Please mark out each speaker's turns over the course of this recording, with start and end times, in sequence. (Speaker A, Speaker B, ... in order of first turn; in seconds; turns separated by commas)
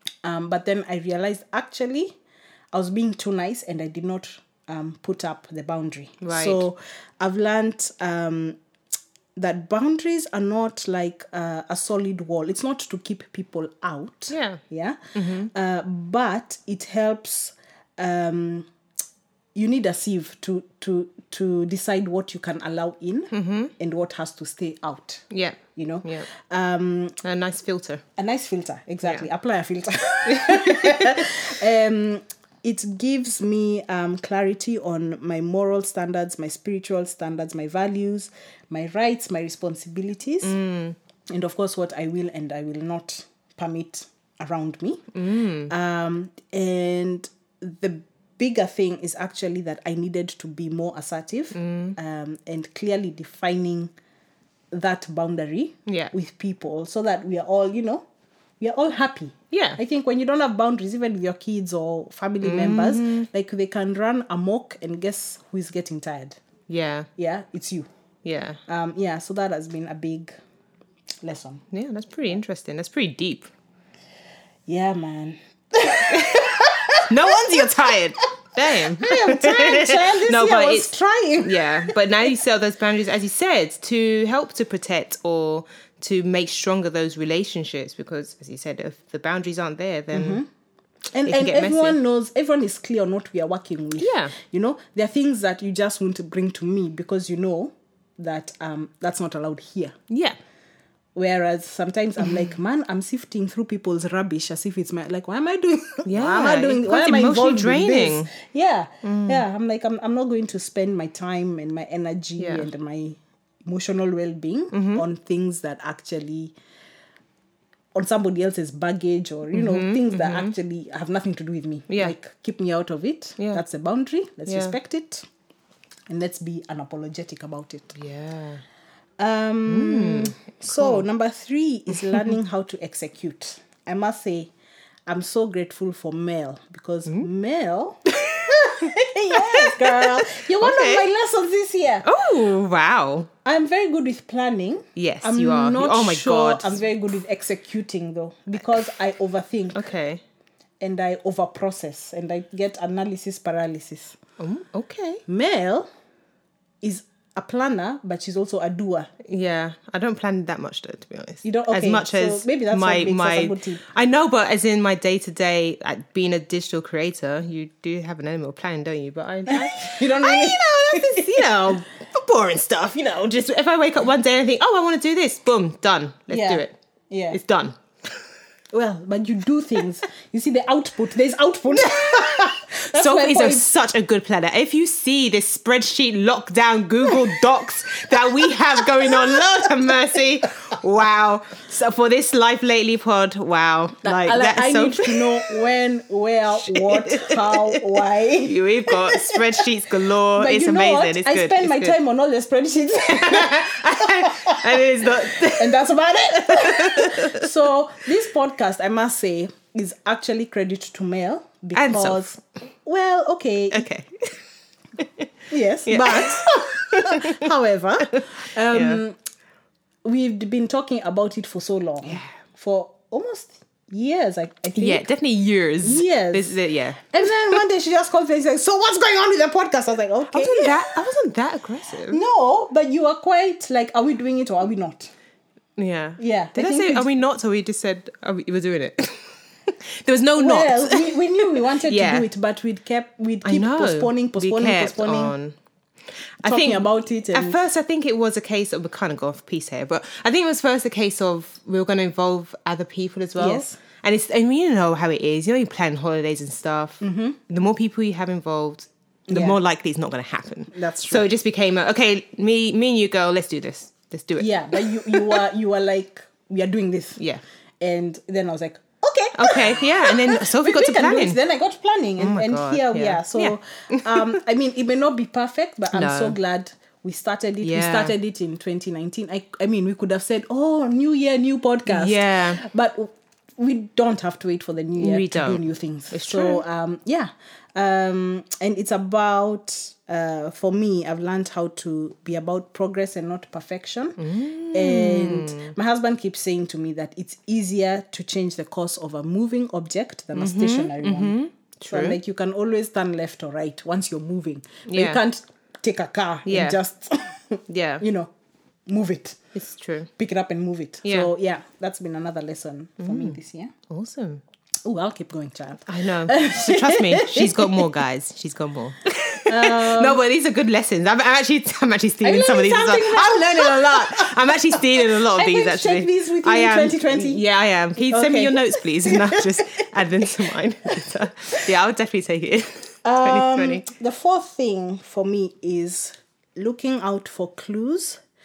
Speaker A: 0.2-2.1, Speaker A: 2.7-8.6, Speaker B: 6.2-6.6, Speaker A: 9.4-18.7, Speaker B: 14.3-14.6, Speaker B: 15.2-15.5, Speaker A: 19.6-25.2, Speaker B: 23.3-23.7, Speaker B: 25.3-26.3, Speaker A: 25.8-27.2, Speaker B: 27.2-28.0, Speaker A: 28.2-40.6, Speaker B: 30.3-31.4, Speaker B: 40.4-41.0, Speaker A: 41.3-45.0, Speaker B: 45.1-45.7, Speaker A: 45.7-53.9, Speaker B: 51.5-52.0, Speaker A: 54.7-58.0, Speaker B: 55.9-56.1, Speaker A: 58.6-66.4, Speaker B: 59.5-59.8, Speaker B: 62.4-63.3, Speaker B: 66.7-67.1, Speaker A: 67.2-67.9, Speaker B: 68.2-68.6, Speaker A: 68.7-70.3, Speaker A: 71.2-71.6, Speaker B: 71.7-73.5, Speaker A: 74.7-78.0, Speaker B: 76.1-90.4, Speaker A: 79.0-82.0, Speaker A: 90.1-90.5, Speaker A: 91.1-100.0, Speaker B: 91.2-92.0, Speaker B: 94.0-94.3, Speaker B: 100.1-100.4, Speaker A: 101.2-116.5, Speaker B: 106.1-108.3, Speaker B: 109.0-109.4, Speaker B: 112.4-112.7, Speaker B: 114.7-115.0, Speaker A: 118.0-125.3, Speaker B: 119.5-120.5, Speaker B: 124.5-124.8, Speaker A: 126.1-128.0, Speaker B: 128.0-128.6, Speaker A: 129.2-134.5, Speaker B: 129.7-131.1, Speaker B: 131.9-132.3, Speaker A: 135.1-142.1, Speaker B: 138.1-141.1, Speaker B: 142.0-143.3, Speaker A: 143.4-149.8, Speaker B: 145.0-146.8, Speaker B: 149.7-150.2, Speaker A: 150.8-154.2, Speaker B: 154.4-155.2, Speaker A: 155.3-155.9, Speaker A: 156.8-159.1, Speaker B: 159.2-176.8, Speaker A: 161.4-163.8, Speaker A: 169.5-171.7, Speaker A: 176.3-177.4, Speaker B: 177.3-177.8, Speaker A: 178.7-183.7, Speaker B: 181.7-195.7, Speaker A: 188.1-189.7, Speaker A: 194.0-199.7, Speaker B: 196.6-202.0, Speaker A: 200.3-213.9, Speaker B: 203.1-207.5, Speaker B: 211.8-212.2, Speaker B: 213.7-214.3, Speaker B: 215.0-215.3, Speaker A: 215.5-219.2, Speaker B: 215.9-217.5, Speaker B: 218.1-219.0, Speaker A: 220.1-225.1, Speaker B: 224.8-227.6, Speaker A: 225.8-226.6, Speaker A: 227.1-231.0, Speaker B: 230.3-232.2, Speaker A: 232.1-235.1, Speaker B: 235.8-242.3, Speaker A: 236.2-237.1, Speaker A: 240.4-245.3, Speaker B: 243.4-245.6, Speaker B: 246.4-265.4, Speaker A: 246.4-247.6, Speaker A: 253.4-253.8, Speaker A: 257.0-257.4, Speaker A: 259.3-259.6, Speaker A: 260.7-261.3, Speaker A: 264.4-267.2, Speaker A: 267.8-308.3, Speaker B: 269.4-271.4, Speaker B: 272.2-274.4, Speaker B: 275.9-276.4, Speaker B: 277.6-278.1, Speaker B: 281.9-282.6, Speaker B: 285.0-286.6, Speaker B: 294.2-295.7, Speaker B: 300.4-302.2, Speaker B: 304.9-305.2, Speaker B: 306.5-306.8, Speaker B: 307.7-308.0, Speaker A: 308.9-309.4, Speaker B: 309.6-310.1, Speaker A: 310.2-313.7, Speaker B: 311.1-311.3, Speaker B: 313.0-313.4, Speaker B: 313.9-314.4, Speaker A: 314.9-317.9, Speaker B: 315.9-333.9, Speaker A: 319.5-320.2, Speaker A: 322.2-327.4, Speaker A: 328.0-330.3, Speaker A: 333.0-338.2